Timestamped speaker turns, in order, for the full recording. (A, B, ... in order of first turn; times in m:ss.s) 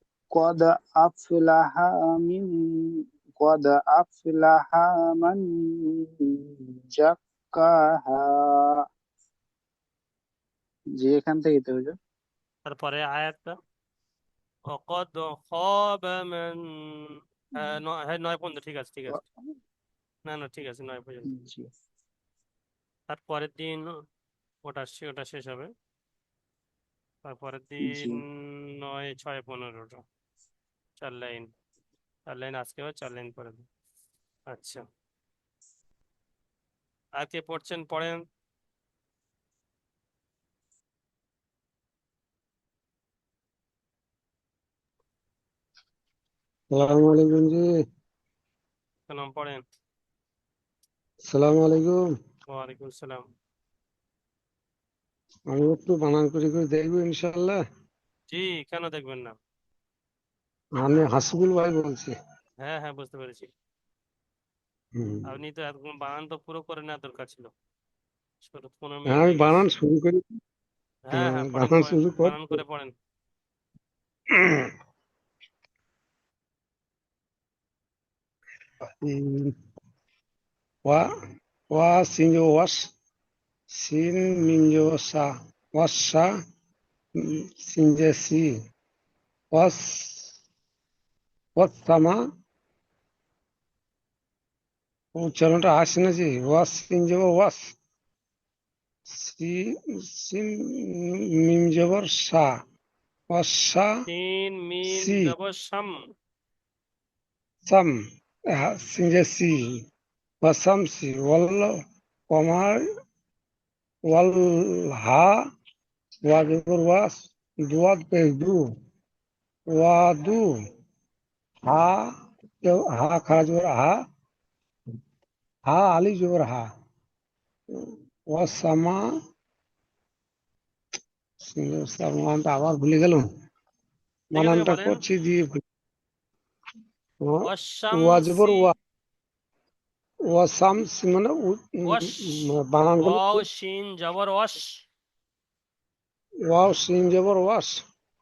0:00.3-0:02.5 A
0:03.4-0:05.4 A
0:06.9-0:08.3 A
0:11.0-0:11.9 A
0:12.6-0:13.5 B
0:14.7-0:16.6 B
0:17.6-0:19.2 B
0:20.2-0:21.3 B
0:21.3-0:21.7 A
0:23.1-0:23.8 B
0:24.6-0:25.7 B
0:27.3-0:30.0 B
0:27.9-0:28.2 A
0:31.0-0:31.5 B
0:32.3-0:33.6 B
0:34.5-0:34.8 B
0:37.2-0:38.2 B
0:46.7-0:47.6 C
0:49.1-0:49.6 B
0:51.2-0:52.0 C
0:52.5-0:53.2 B
0:55.5-0:57.6 C
0:58.3-0:59.3 B
1:00.8-1:02.1 C
1:02.6-1:03.5 B
1:05.0-1:05.2 C
1:05.3-1:07.5 B
1:08.4-1:09.6 B
1:09.1-1:10.2 C
1:11.1-1:12.9 B
1:11.1-1:12.6 C
1:14.3-1:14.7 C
1:18.8-1:19.5 C
1:21.7-1:22.9 C
1:23.7-1:26.3 C
1:27.2-1:28.5 C
1:29.5-1:30.3 C
1:31.6-1:32.2 C
1:35.2-1:37.7 C
1:39.1-1:42.5 C
1:43.3-1:43.9 C
1:44.1-1:45.9 B
1:44.9-1:45.3 C
1:47.6-1:47.9 C
1:48.6-1:49.6 C
1:50.4-1:51.7 C
1:52.3-1:52.8 C
1:54.1-1:55.4 C
1:56.2-1:57.1 C
1:57.6-1:58.6 C
1:59.7-2:00.5 C
2:01.6-2:02.0 C
2:02.6-2:03.9 C
2:05.7-2:06.6 C
2:07.8-2:09.0 C
2:11.4-2:13.2 C
2:14.3-2:15.6 C
2:14.4-2:15.0 B
2:17.2-2:18.8 C
2:17.4-2:18.7 B
2:20.3-2:23.4 C
2:21.8-2:22.5 B
2:23.0-2:24.8 B
2:26.5-2:27.8 C